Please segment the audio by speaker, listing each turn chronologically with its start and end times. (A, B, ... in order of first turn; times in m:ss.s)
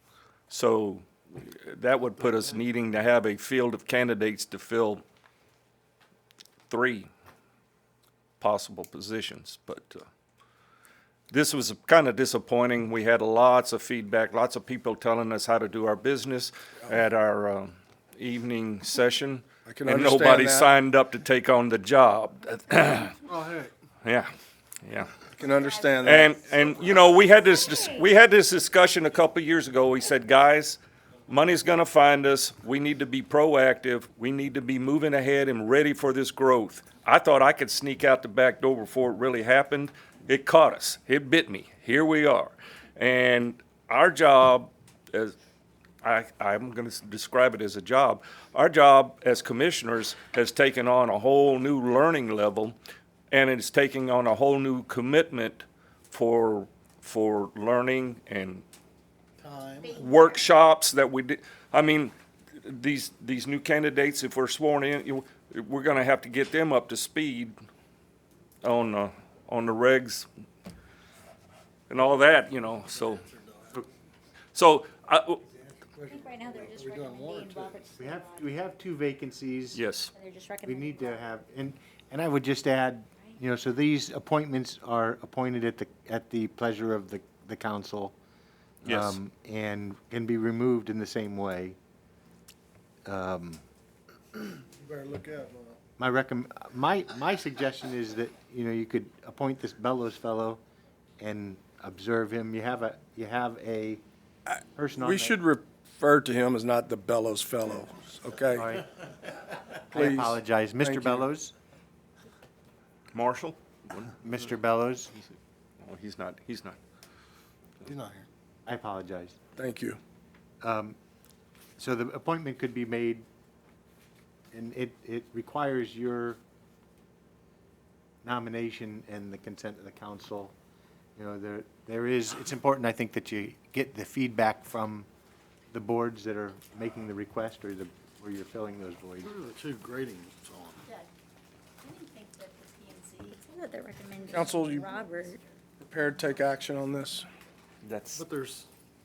0:00.5-0:05.0 A
0:06.7-0:07.1 A
0:08.4-0:10.1 A
0:11.3-0:23.2 A
0:19.7-0:20.7 B
0:23.3-0:23.7 C
0:24.0-0:24.3 A
0:24.8-0:25.2 A
0:25.3-0:26.4 B
0:25.5-0:27.5 D
0:26.0-0:45.3 A
0:46.0-0:52.8 A
0:53.3-0:58.6 A
0:59.4-1:00.0 C
0:59.9-1:07.5 A
1:08.6-1:10.3 A
1:11.9-1:13.2 A
1:12.7-1:13.8 C
1:14.5-1:15.4 A
1:15.8-1:17.9 C
1:16.1-1:18.4 D
1:18.0-1:19.8 E
1:19.7-1:20.1 A
1:20.1-1:21.3 D
1:20.6-1:28.1 E
1:28.8-1:29.2 A
1:28.8-1:31.8 E
1:33.0-1:33.6 E
1:34.8-1:35.8 C
1:36.0-1:40.6 E
1:41.2-1:44.0 E
1:44.5-1:48.7 B
1:44.7-1:45.4 E
1:48.5-1:48.9 E
1:49.9-1:51.3 B
1:49.9-1:51.5 E
1:53.1-1:54.1 A
1:54.2-1:55.1 E
1:55.8-1:56.8 A
1:57.8-1:58.2 C
1:58.7-1:59.4 E
1:59.6-2:00.0 B
2:00.6-2:01.0 E
2:01.8-2:03.2 E
2:04.5-2:06.4 E
2:08.2-2:10.5 E
2:11.2-2:15.1 E
2:15.7-2:19.4 E
2:19.2-2:20.8 C
2:21.8-2:25.4 D
2:24.3-2:25.0 B
2:25.8-2:27.3 B
2:27.8-2:28.2 A
2:28.1-2:28.7 C